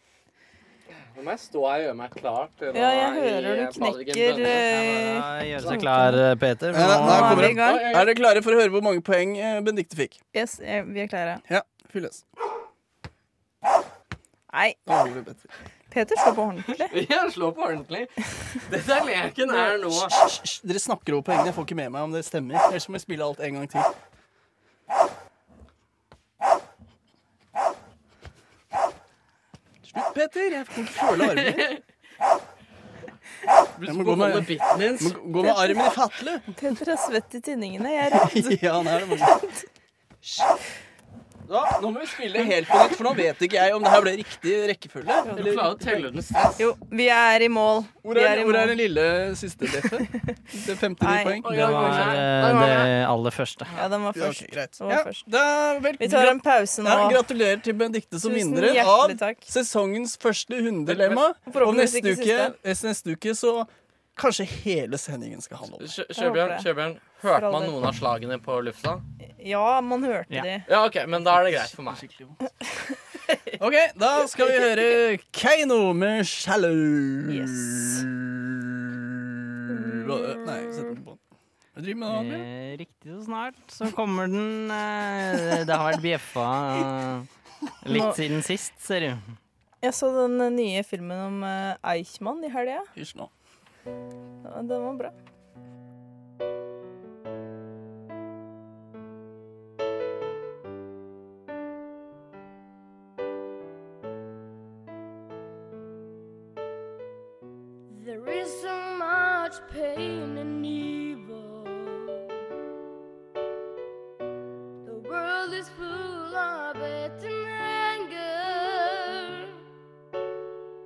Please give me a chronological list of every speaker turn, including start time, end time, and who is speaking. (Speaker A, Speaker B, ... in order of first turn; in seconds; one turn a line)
Speaker A: 1.1-4.8
Speaker B: 2.7-6.2
Speaker C: 4.7-7.5
Speaker D: 6.7-10.2
Speaker B: 6.9-7.9
Speaker A: 6.9-8.1
Speaker B: 10.3-11.4
Speaker D: 11.5-12.2
Speaker B: 14.5-14.8
Speaker D: 14.9-15.5
Speaker B: 15.9-16.9
Speaker A: 16.8-20.1
Speaker D: 19.8-23.9
Speaker D: 29.8-31.7
Speaker A: 31.2-31.8
Speaker A: 33.8-35.2
Speaker D: 33.9-36.7
Speaker B: 35.4-35.9
Speaker B: 36.6-39.7
Speaker D: 38.1-39.4
Speaker D: 41.5-46.1
Speaker A: 45.3-46.7
Speaker B: 46.6-48.8
Speaker D: 48.0-52.0
Speaker B: 49.8-50.4
Speaker B: 51.0-51.5
Speaker A: 51.4-52.9
Speaker C: 51.5-53.7
Speaker B: 53.8-55.2
Speaker D: 54.1-65.9
Speaker B: 56.0-57.2
Speaker B: 58.2-59.5
Speaker A: 60.9-61.2
Speaker B: 61.5-62.5
Speaker A: 65.8-69.0
Speaker B: 66.2-66.7
Speaker B: 67.3-67.8
Speaker B: 69.3-70.7
Speaker A: 70.7-72.1
Speaker D: 71.9-72.4
Speaker D: 73.6-81.2
Speaker B: 77.3-78.1
Speaker B: 79.7-81.0
Speaker D: 81.8-82.5
Speaker C: 82.1-87.3
Speaker C: 87.8-89.3
Speaker B: 87.9-88.2
Speaker B: 89.8-92.9
Speaker D: 93.0-93.3
Speaker B: 94.4-95.1
Speaker E: 107.9-112.3
Speaker E: 114.8-119.5